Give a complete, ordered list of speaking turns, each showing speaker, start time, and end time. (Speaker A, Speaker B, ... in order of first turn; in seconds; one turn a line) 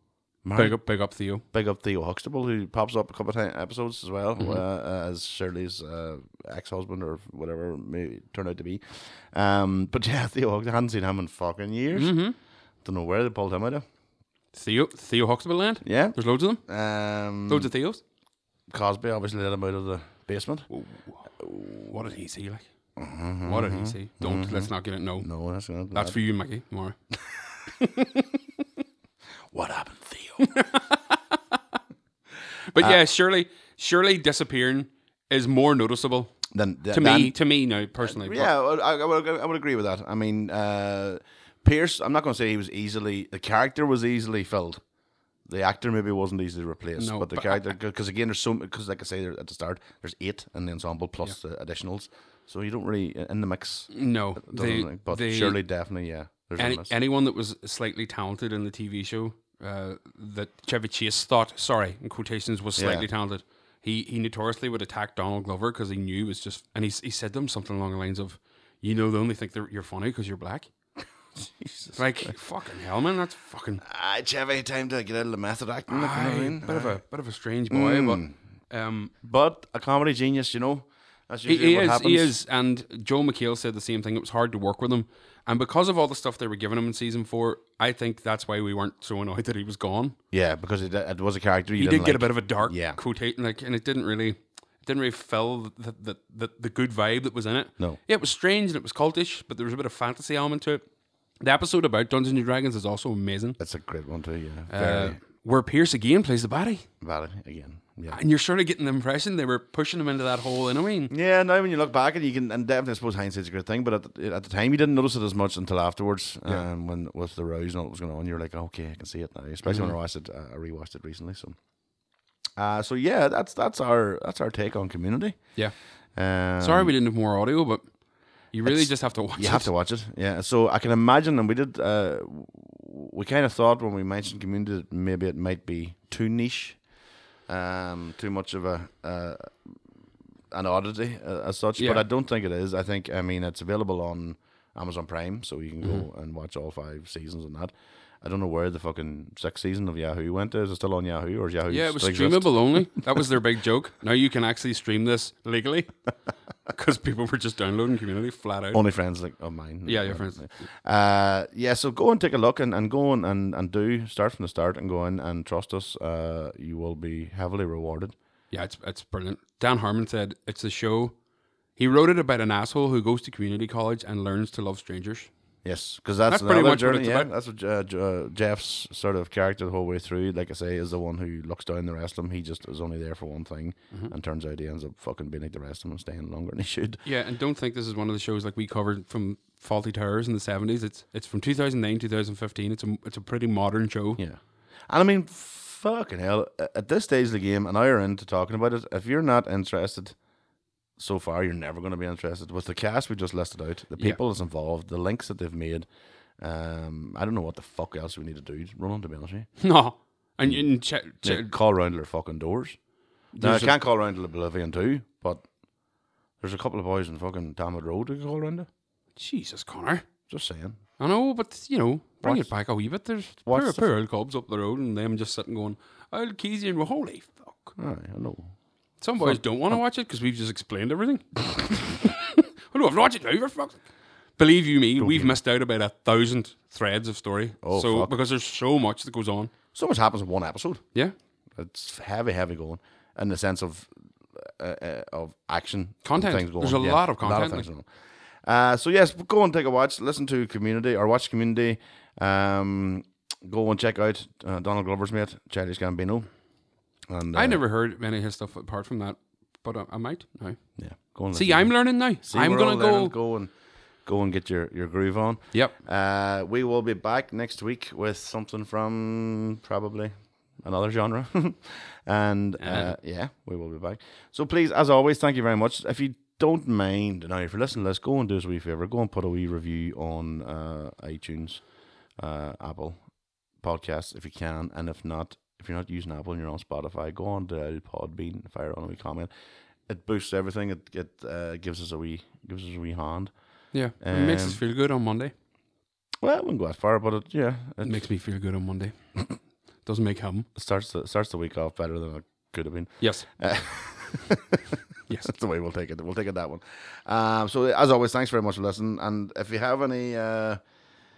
Speaker A: 0.4-0.8
Speaker B: 0.6-1.4
Speaker A: 1.5-12.3
Speaker B: 4.4-4.6
Speaker B: 11.9-12.4
Speaker A: 12.8-13.9
Speaker B: 14.5-16.6
Speaker A: 15.8-17.7
Speaker B: 17.5-18.0
Speaker A: 18.7-20.7
Speaker B: 20.7-21.3
Speaker A: 21.4-22.0
Speaker B: 21.9-22.6
Speaker A: 23.0-26.2
Speaker B: 23.4-25.3
Speaker B: 25.9-27.0
Speaker B: 27.8-28.2
Speaker A: 29.5-30.6
Speaker B: 30.4-31.3
Speaker B: 32.7-36.4
Speaker A: 32.8-33.0
Speaker A: 36.5-37.4
Speaker B: 36.9-38.5
Speaker A: 38.0-44.8
Speaker A: 45.5-56.9
Speaker B: 47.0-47.6
Speaker B: 53.9-55.6
Speaker B: 56.6-70.7
Speaker A: 62.8-63.1
Speaker A: 71.4-72.3
Speaker B: 72.0-73.8
Speaker A: 73.8-77.0
Speaker B: 75.9-79.1
Speaker A: 77.7-78.3
Speaker A: 79.2-82.3
Speaker B: 81.5-90.2
Speaker A: 90.3-93.0
Speaker B: 91.8-100.8
Speaker B: 101.4-103.6
Speaker A: 103.6-105.2
Speaker B: 104.7-106.8
Speaker A: 107.0-108.2
Speaker B: 108.1-111.1
Speaker A: 111.1-121.6
Speaker B: 119.7-119.9
Speaker A: 122.6-125.6
Speaker A: 126.2-126.9
Speaker B: 126.6-127.9
Speaker B: 128.5-129.7
Speaker A: 128.7-136.9
Speaker A: 137.5-139.8
Speaker A: 140.5-153.1
Speaker B: 141.8-142.0
Speaker B: 151.7-155.9
Speaker B: 156.7-158.8
Speaker A: 158.7-168.1
Speaker B: 159.9-160.7
Speaker B: 168.5-171.2
Speaker B: 171.8-175.3
Speaker A: 175.6-187.0
Speaker B: 176.3-177.3
Speaker B: 187.0-194.2
Speaker A: 194.2-200.2
Speaker A: 201.0-205.9
Speaker A: 206.4-209.6
Speaker B: 209.6-211.5
Speaker A: 210.4-212.8
Speaker B: 213.3-213.7
Speaker A: 213.4-215.4
Speaker A: 216.4-218.7
Speaker B: 219.2-220.1
Speaker A: 220.3-220.8
Speaker B: 221.0-227.7
Speaker A: 222.2-222.5
Speaker A: 223.4-223.9
Speaker A: 227.8-228.5
Speaker B: 229.0-233.8
Speaker A: 229.2-229.8
Speaker B: 234.4-239.5
Speaker A: 235.0-235.4
Speaker A: 237.6-238.1
Speaker A: 239.7-240.8
Speaker A: 241.6-256.3
Speaker B: 246.0-247.7
Speaker A: 257.1-257.6
Speaker B: 257.3-260.6
Speaker A: 260.8-289.3
Speaker B: 261.1-263.1
Speaker B: 272.6-272.9
Speaker A: 289.9-293.3
Speaker B: 293.7-295.3
Speaker A: 293.9-294.6
Speaker A: 296.2-298.1
Speaker B: 297.8-298.9
Speaker B: 299.8-300.5
Speaker A: 300.6-304.6
Speaker B: 303.0-303.3
Speaker A: 305.2-310.6